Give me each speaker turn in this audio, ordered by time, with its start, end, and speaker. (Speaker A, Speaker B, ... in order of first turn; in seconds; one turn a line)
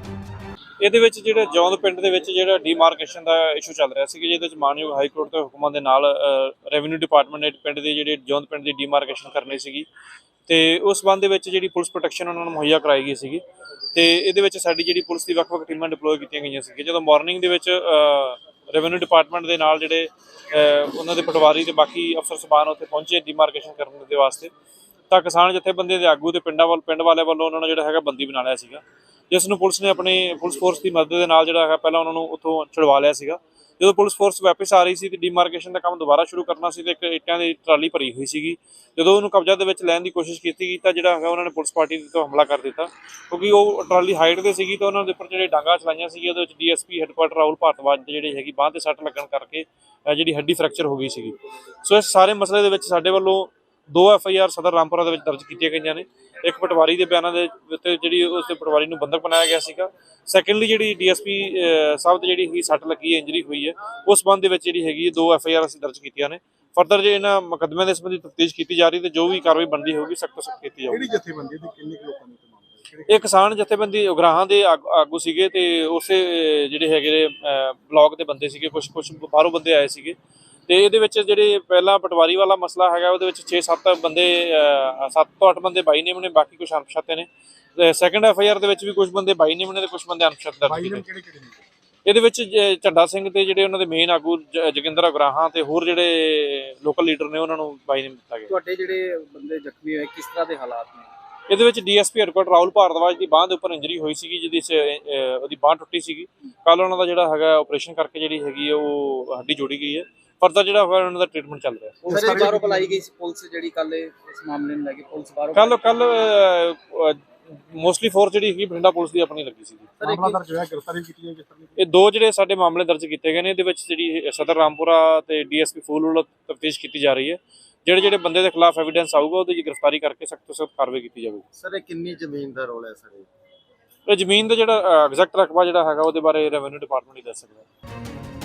Speaker A: 0.8-9.9
Speaker A: 10.5-13.4
Speaker A: 13.9-24.5
Speaker A: 25.1-71.0
Speaker B: 70.9-73.3
Speaker A: 73.1-80.2
Speaker A: 80.7-91.0
Speaker B: 90.6-91.6
Speaker A: 92.0-98.5
Speaker C: 98.5-101.1
Speaker A: 101.5-112.1
Speaker C: 112.0-115.8
Speaker B: 112.0-113.0
Speaker A: 115.5-119.9
Speaker C: 120.0-120.4
Speaker B: 120.0-121.8
Speaker A: 121.8-131.4
Speaker C: 131.6-133.3
Speaker A: 134.1-137.7